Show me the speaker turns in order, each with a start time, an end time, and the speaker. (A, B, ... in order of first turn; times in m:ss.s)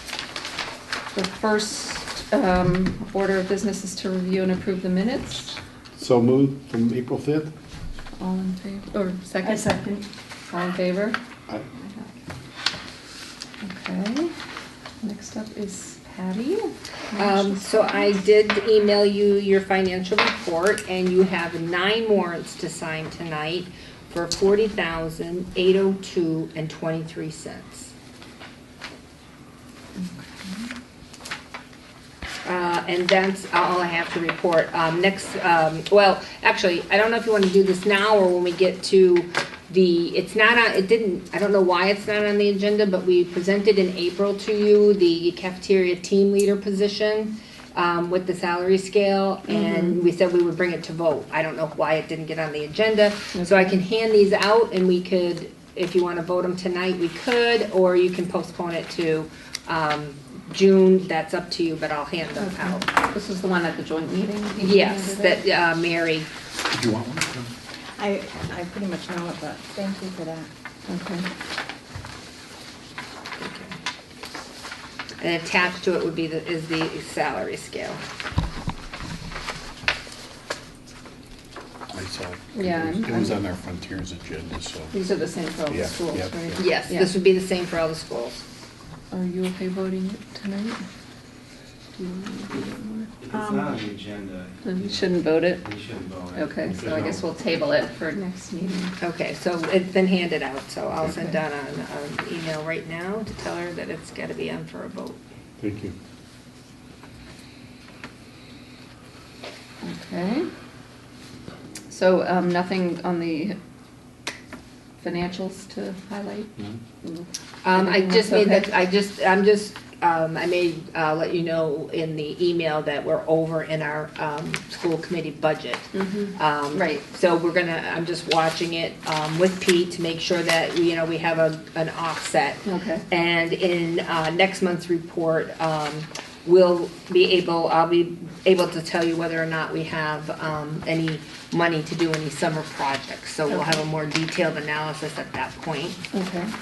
0:01.1-0:05.6 A
0:06.0-0:07.5 B
0:08.2-0:09.7 A
0:09.4-0:10.0 C
0:10.5-0:11.2 A
0:11.8-0:12.1 A
0:13.6-0:14.3 A
0:15.0-0:17.6 A
0:17.2-0:27.9 D
0:30.0-0:30.7 C
0:32.4-1:02.9 D
0:49.5-0:49.9 A
0:53.3-0:53.7 A
1:02.4-1:05.4 A
1:04.6-1:06.3 D
1:06.7-1:07.5 B
1:08.0-1:10.5 C
1:10.9-1:11.2 A
1:13.4-1:13.8 D
1:15.2-1:18.0 D
1:21.9-1:24.9 B
1:22.5-1:23.4 A
1:24.9-1:27.1 A
1:25.7-1:26.6 B
1:26.6-1:28.4 D
1:29.1-1:30.8 A
1:32.0-1:33.1 A
1:33.2-1:37.2 E
1:33.3-1:33.8 C
1:34.6-1:35.6 A
1:36.3-1:38.9 A
1:39.0-1:45.2 D
1:41.1-1:41.4 A
1:45.6-1:46.0 B
1:49.8-1:50.5 A
1:51.9-1:53.6 A
1:55.0-1:56.5 A
1:57.0-1:58.7 A
1:57.6-2:26.0 D
2:05.9-2:07.0 A
2:12.6-2:13.0 A
2:26.1-2:26.5 A